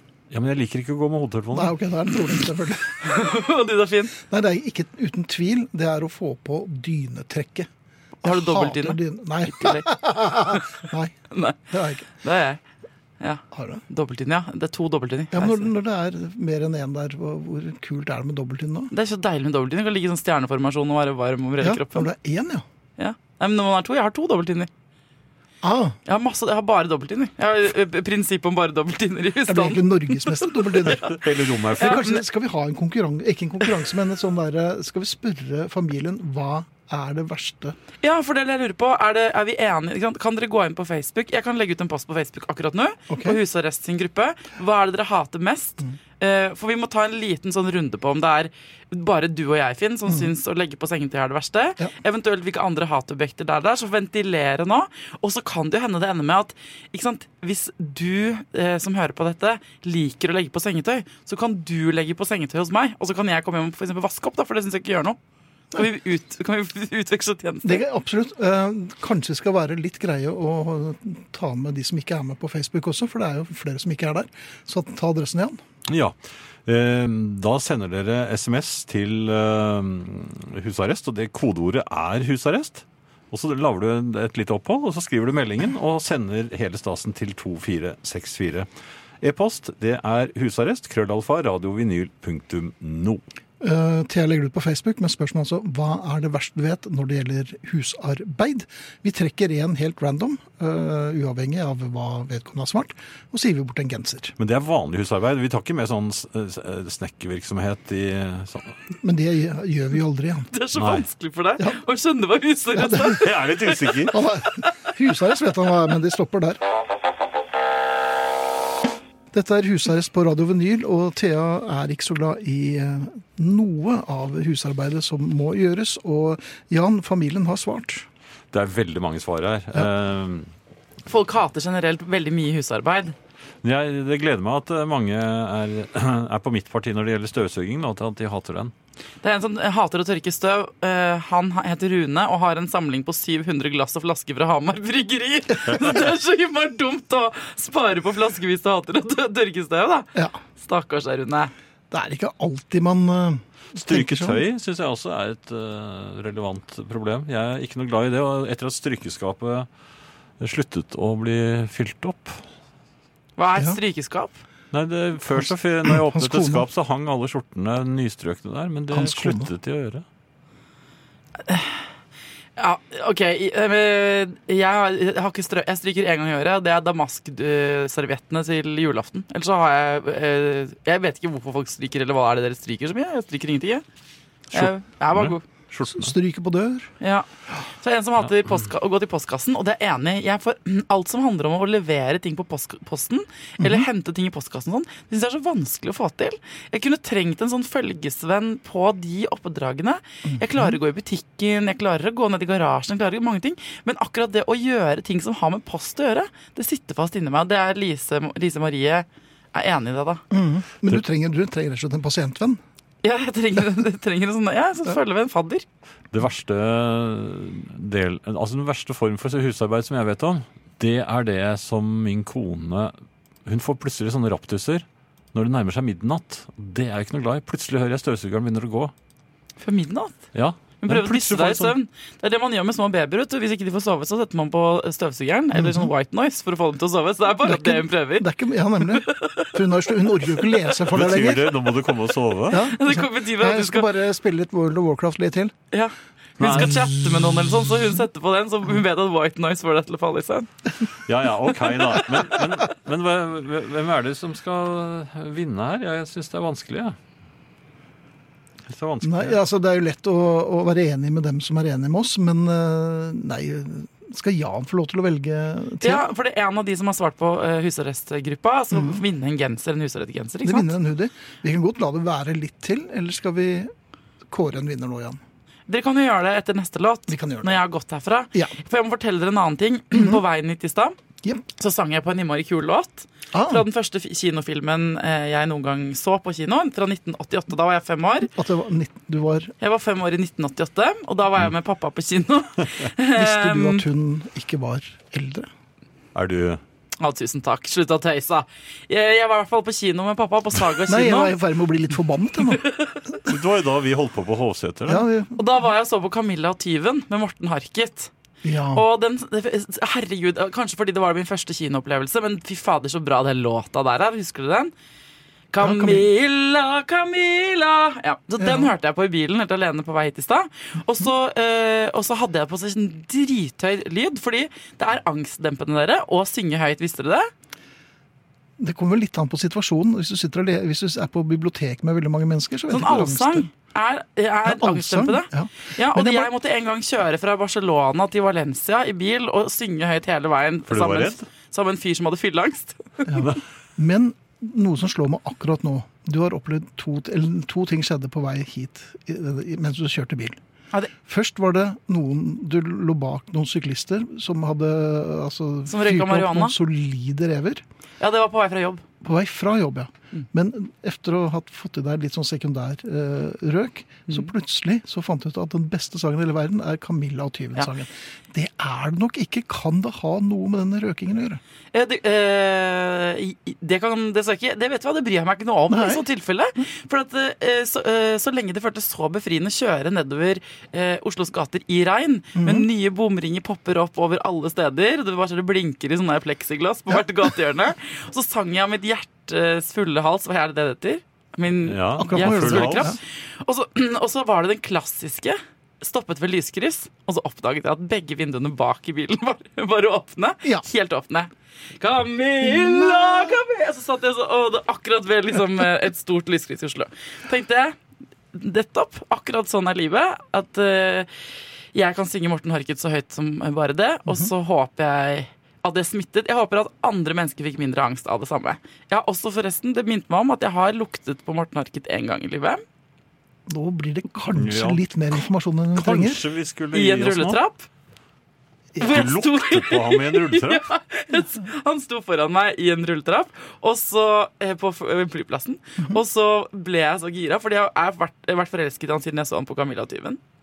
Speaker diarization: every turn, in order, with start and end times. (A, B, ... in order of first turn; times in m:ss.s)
0:00.3-0:01.8 A
0:01.5-0:03.0 B
0:03.0-0:04.2 C
0:04.2-0:07.7 B
0:08.2-0:11.1 B
0:08.2-0:11.6 C
0:11.7-0:12.1 B
0:12.2-0:12.6 C
0:13.2-0:15.7 C
0:13.5-0:13.8 B
0:15.3-0:18.9 B
0:18.9-0:22.1 C
0:21.6-0:22.6 B
0:23.0-0:24.7 C
0:25.6-0:26.0 B
0:26.0-0:31.1 C
0:29.4-0:31.1 B
0:30.9-0:32.1 A
0:31.8-0:32.2 C
0:31.8-0:37.8 B
0:38.0-1:05.2 C
0:43.1-0:43.4 B
1:05.7-1:07.8 C
1:07.6-1:15.6 B
1:15.9-1:16.1 A
1:16.6-1:28.7 A
1:29.2-1:33.2 A
1:33.6-1:44.3 B
1:44.4-1:48.8 A
1:49.0-1:50.5 B
1:50.5-1:54.0 C
1:50.7-1:51.0 A
1:52.8-1:53.2 B
1:53.1-1:54.2 A
1:54.1-1:56.6 B
1:59.3-2:08.1 B
2:08.5-2:10.5 A
2:11.1-2:13.1 C
2:13.6-2:18.7 A
2:19.2-2:31.5 C
2:31.9-2:34.4 B
2:33.7-2:39.7 A
2:40.4-2:42.4 A
2:43.4-2:44.4 C
2:44.7-2:50.0 A
2:45.4-2:46.6 B
2:48.9-2:49.5 B
2:51.4-2:51.8 C
2:52.6-3:03.8 C
3:04.5-3:05.4 C
3:04.5-3:06.1 A
3:05.8-3:06.9 B
3:07.0-3:07.3 C
3:07.8-3:30.2 C
3:13.6-3:13.8 B
3:20.3-3:20.8 B
3:30.3-3:32.6 B
3:33.0-3:35.6 C
3:36.1-3:42.9 A
3:43.4-3:48.9 A
3:49.6-3:50.2 C
3:50.3-3:51.7 A
3:50.8-3:58.3 C
3:55.5-3:55.9 B
3:57.4-4:01.8 B
3:59.0-4:00.6 C
4:00.9-4:02.7 A
4:02.5-4:05.5 B
4:02.6-4:03.9 C
4:05.7-4:10.5 C
4:06.4-4:07.3 A
4:11.0-4:17.0 A
4:11.7-4:12.4 C
4:18.6-4:19.4 A
4:19.0-4:26.1 B
4:25.8-4:30.7 C
4:28.7-4:29.0 B
4:30.4-4:33.7 B
4:34.3-4:35.2 B
4:35.7-4:41.0 C
4:37.1-4:37.6 B
4:41.5-4:48.3 C
4:43.3-4:43.6 B
4:48.4-4:49.5 B
4:49.6-4:53.8 C
4:53.1-4:55.5 B
4:56.1-4:56.6 A
4:57.0-5:01.4 C
5:00.9-5:02.7 B
5:02.6-5:03.0 C
5:03.2-5:05.1 A
5:04.9-5:05.4 B
5:05.3-5:08.1 C
5:08.4-5:08.8 B
5:08.7-5:14.7 C
5:15.5-5:27.3 C
5:15.6-5:16.1 B
5:18.4-5:18.7 B
5:28.6-5:33.4 B
5:32.7-5:43.3 C
5:34.4-5:36.3 B
5:40.7-5:41.2 A
5:43.1-5:50.4 B
5:51.0-5:57.6 B
5:55.7-5:56.5 C
5:58.0-5:58.8 C
5:59.0-6:11.4 B
6:11.7-6:47.8 C
6:15.7-6:16.0 B
6:22.3-6:22.7 B
6:31.6-6:32.9 A
6:32.0-6:33.0 B
6:48.3-6:51.1 C
6:51.7-7:02.6 C
7:03.5-7:06.2 B
7:04.3-7:04.8 A
7:05.7-7:07.4 A
7:06.7-7:07.7 C
7:08.7-7:09.0 B
7:08.8-7:20.2 C
7:08.9-7:10.6 A